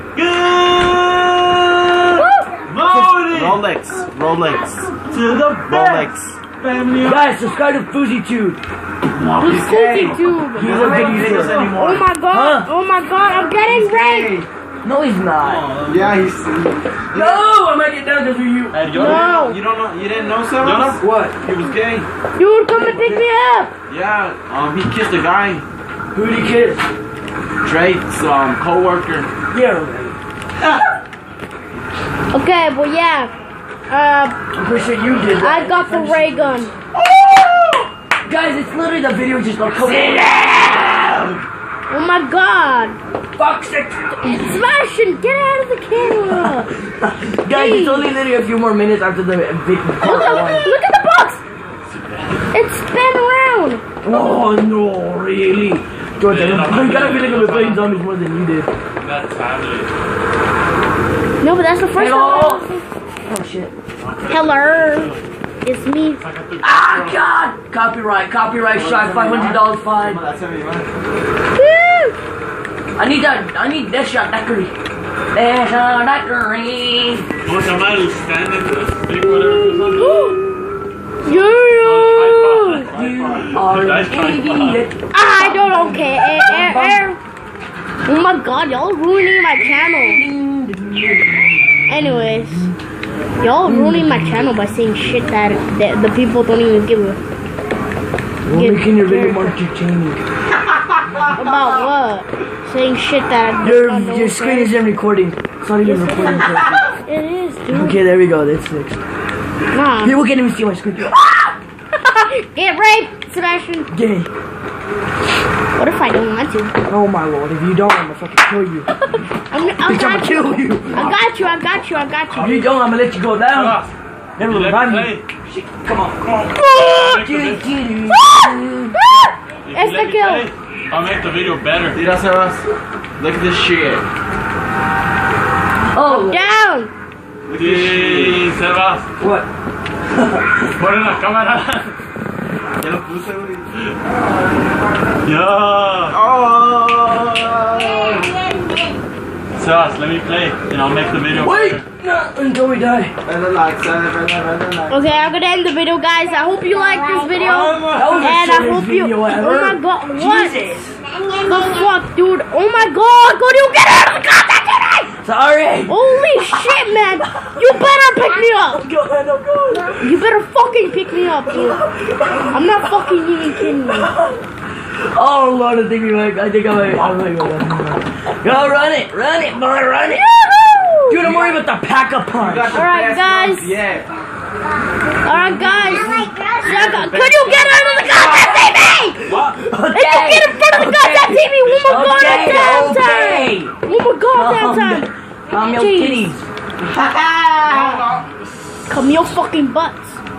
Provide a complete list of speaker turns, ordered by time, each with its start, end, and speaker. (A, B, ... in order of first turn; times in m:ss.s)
0:00.2-0:02.0 A
0:02.1-0:02.5 B
0:02.7-0:03.6 A
0:02.8-0:03.3 C
0:02.8-0:05.0 D
0:05.0-0:06.1 A
0:05.6-0:07.2 D
0:07.0-0:08.6 C
0:09.1-0:12.1 D
0:09.4-0:14.4 B
0:10.5-0:11.7 C
0:12.3-0:12.7 C
0:13.6-0:14.5 D
0:14.8-0:15.6 C
0:15.4-0:16.2 A
0:15.8-0:17.5 D
0:17.1-0:18.8 C
0:18.7-0:19.4 A
0:18.9-0:22.1 D
0:18.9-0:19.6 B
0:20.6-0:21.0 A
0:21.0-0:21.4 C
0:22.4-0:23.7 B
0:22.7-0:23.2 C
0:23.9-0:25.6 D
0:26.1-0:26.9 C
0:27.6-0:29.3 D
0:29.5-0:30.2 C
0:32.3-0:33.3 B
0:33.9-0:34.4 B
0:34.5-0:36.7 C
0:35.4-0:36.7 B
0:36.9-0:37.9 D
0:38.2-0:41.4 C
0:41.9-0:43.0 B
0:43.4-0:44.4 C
0:44.2-0:46.7 B
0:46.3-0:50.7 C
0:47.5-0:48.2 B
0:50.0-0:51.4 B
0:51.8-0:52.4 A
0:52.5-0:53.8 B
0:54.0-0:58.7 C
0:56.2-0:58.0 A
0:59.0-0:59.9 A
1:01.4-1:02.9 B
1:01.9-1:02.7 C
1:03.2-1:03.7 C
1:04.0-1:05.2 A
1:04.3-1:06.2 B
1:06.2-1:07.2 A
1:06.6-1:10.2 C
1:08.7-1:11.0 D
1:11.5-1:12.2 B
1:13.0-1:14.7 C
1:15.3-1:17.3 C
1:17.4-1:20.3 A
1:19.8-1:20.4 B
1:21.2-1:22.9 B
1:21.6-1:24.9 A
1:22.9-1:27.1 C
1:25.1-1:27.2 B
1:28.0-1:30.2 B
1:29.6-1:32.7 C
1:31.9-1:32.7 B
1:33.4-1:37.2 B
1:33.6-1:34.5 C
1:38.4-1:40.2 C
1:38.5-1:39.6 B
1:41.3-1:44.7 B
1:43.6-1:46.8 C
1:45.8-1:48.0 B
1:47.7-1:49.0 C
1:49.7-1:50.2 B
1:50.0-1:51.6 C
1:52.0-1:53.9 B
1:53.9-1:54.3 C
1:55.7-1:56.7 B
1:56.9-1:58.9 C
1:59.0-2:02.7 B
1:59.8-2:01.2 C
2:02.3-2:03.8 C
2:03.5-2:05.2 A
2:04.4-2:09.0 C
2:06.6-2:07.6 A
2:08.1-2:10.5 B
2:09.1-2:12.0 A
2:11.9-2:12.7 D
2:13.2-2:14.0 D
2:15.9-2:16.4 C
2:16.0-2:16.9 B
2:17.5-2:18.5 D
2:17.5-2:19.1 A
2:19.2-2:19.5 C
2:20.1-2:20.6 C
2:20.6-2:21.9 A
2:22.8-2:23.7 D
2:25.2-2:26.2 A
2:26.1-2:28.4 D
2:29.6-2:31.8 A
2:31.3-2:33.1 C
2:33.2-2:35.0 D
2:34.9-2:40.7 B
2:37.4-2:38.2 D
2:37.7-2:41.0 C
2:41.4-2:45.1 B
2:45.2-2:46.5 C
2:45.9-2:48.8 B
2:47.2-2:47.8 C
2:48.4-2:50.1 C
2:50.0-2:54.1 B
2:51.5-2:52.6 C
2:53.6-2:54.4 C
2:54.9-3:00.3 C
3:00.1-3:01.2 B
3:01.1-3:02.8 C
3:01.2-3:01.6 D
3:02.4-3:04.1 D
3:02.7-3:03.8 B
3:05.2-3:09.3 B
3:06.7-3:08.0 A
3:08.1-3:13.7 C
3:09.9-3:16.3 B
3:14.3-3:16.5 C
3:16.8-3:18.0 D
3:17.7-3:18.4 A
3:18.9-3:20.2 B